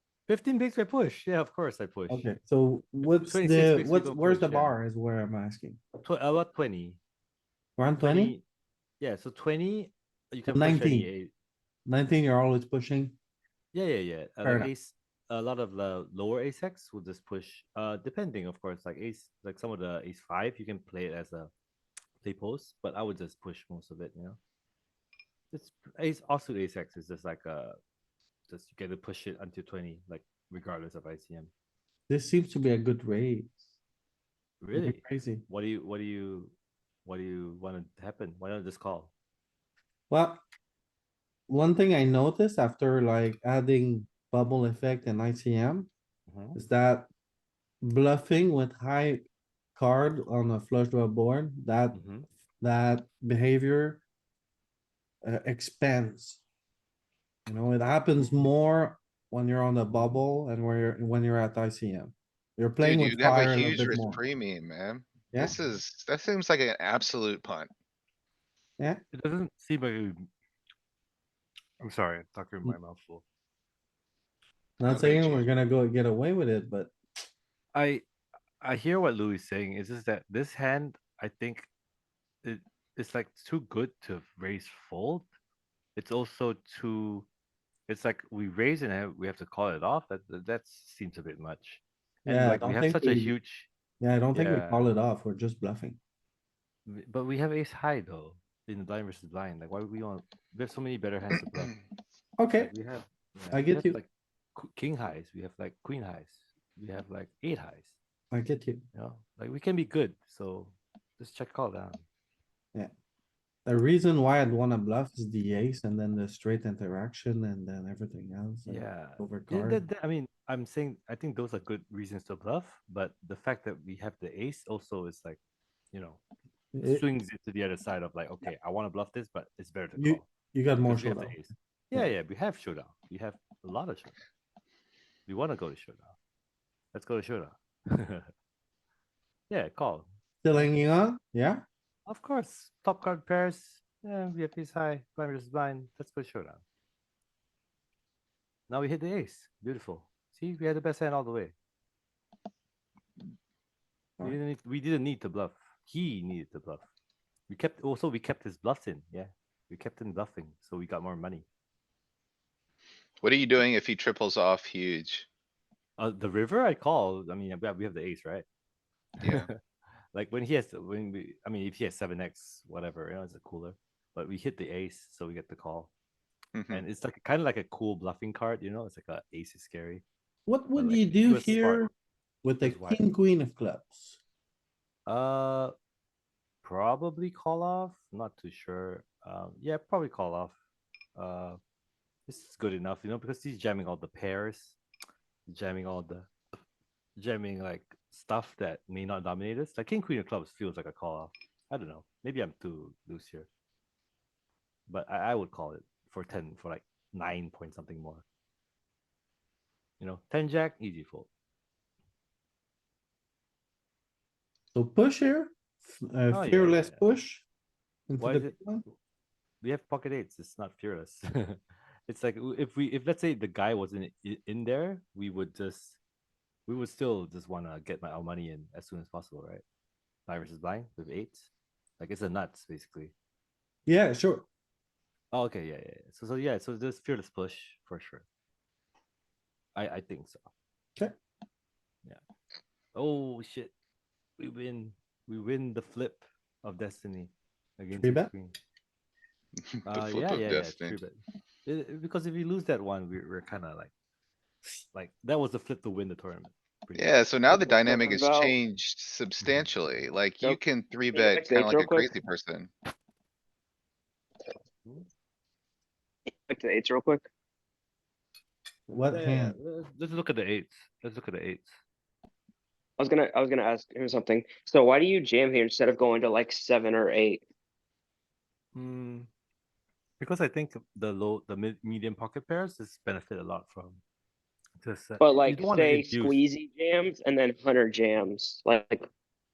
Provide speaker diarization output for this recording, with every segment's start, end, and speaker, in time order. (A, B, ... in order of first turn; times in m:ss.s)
0:00.3-0:02.3 A
0:02.1-0:05.8 B
0:03.0-0:04.8 A
0:06.0-0:07.0 A
0:07.8-0:08.4 B
0:08.0-0:08.4 A
0:09.0-0:11.3 A
0:10.5-0:11.1 B
0:11.9-0:13.2 B
0:13.7-0:21.5 A
0:14.4-0:14.7 B
0:22.2-0:24.4 A
0:25.5-0:27.8 A
0:28.5-0:31.5 A
0:32.1-0:33.6 B
0:34.6-0:36.5 A
0:34.7-0:35.4 B
0:37.0-0:39.1 A
0:40.1-0:40.4 B
0:41.5-0:45.9 B
0:46.3-0:46.6 A
0:46.6-0:47.1 B
0:47.8-0:52.0 B
0:51.9-0:52.3 A
0:52.6-0:54.0 B
0:55.2-0:56.4 B
0:57.5-1:04.2 B
0:58.2-0:58.5 A
0:59.9-1:00.2 A
1:02.8-1:07.7 C
1:09.1-1:10.3 A
1:11.8-1:13.2 A
1:14.8-1:16.9 B
1:14.8-1:15.5 C
1:17.7-1:18.0 A
1:18.6-1:21.7 A
1:22.4-1:25.3 A
1:26.0-1:27.3 A
1:27.9-1:33.7 A
1:32.3-1:33.3 B
1:34.0-1:36.0 B
1:34.3-1:34.8 A
1:36.9-1:41.8 A
1:42.4-1:42.7 B
1:42.6-1:48.0 A
1:43.5-1:44.0 B
1:48.3-1:48.8 B
1:48.9-1:52.0 A
1:53.7-1:59.8 B
1:58.7-2:05.4 A
2:05.9-2:06.2 A
2:06.7-2:07.0 B
2:06.8-2:10.3 A
2:10.0-2:11.4 B
2:10.8-2:14.2 A
2:15.3-2:16.2 A
2:16.9-2:18.3 A
2:19.5-2:20.7 A
2:20.4-2:21.6 B
2:22.1-2:26.6 A
2:28.7-2:31.5 A
2:34.2-2:36.8 A
2:37.5-2:41.5 A
2:43.2-2:45.3 C
2:46.0-2:48.5 A
2:49.2-2:49.5 C
2:49.2-2:49.5 A
2:50.1-2:55.9 A
2:56.5-2:56.8 C
2:56.7-3:00.0 A
3:00.5-3:01.9 B
3:00.8-3:01.9 A
3:02.4-3:04.2 B
3:02.6-3:03.0 A
3:05.1-3:05.7 A
3:06.6-3:10.6 A
3:11.2-3:11.6 A
3:12.3-3:14.8 A
3:15.5-3:16.3 A
3:17.2-3:23.5 A
3:24.9-3:28.2 A
3:30.0-3:31.3 A
3:34.8-3:37.4 B
3:36.3-3:37.0 A
3:38.1-3:38.8 B
3:38.2-3:38.9 A
3:39.6-3:46.0 A
3:46.7-3:49.6 A
3:50.3-3:53.1 A
3:53.9-3:54.5 B
3:55.3-3:58.2 A
3:59.8-4:00.5 A
4:03.0-4:03.7 A
4:04.4-4:08.6 A
4:08.0-4:08.3 B
4:09.8-4:11.0 C
4:09.9-4:13.9 A
4:14.9-4:17.2 A
4:17.0-4:22.7 C
4:17.6-4:18.6 D
4:21.1-4:22.1 D
4:26.5-4:27.3 D
4:28.9-4:29.6 B
4:29.1-4:31.8 A
4:33.0-4:37.4 D
4:38.7-4:39.3 A
4:40.2-4:44.0 A
4:44.8-4:46.4 A
4:45.2-4:49.1 D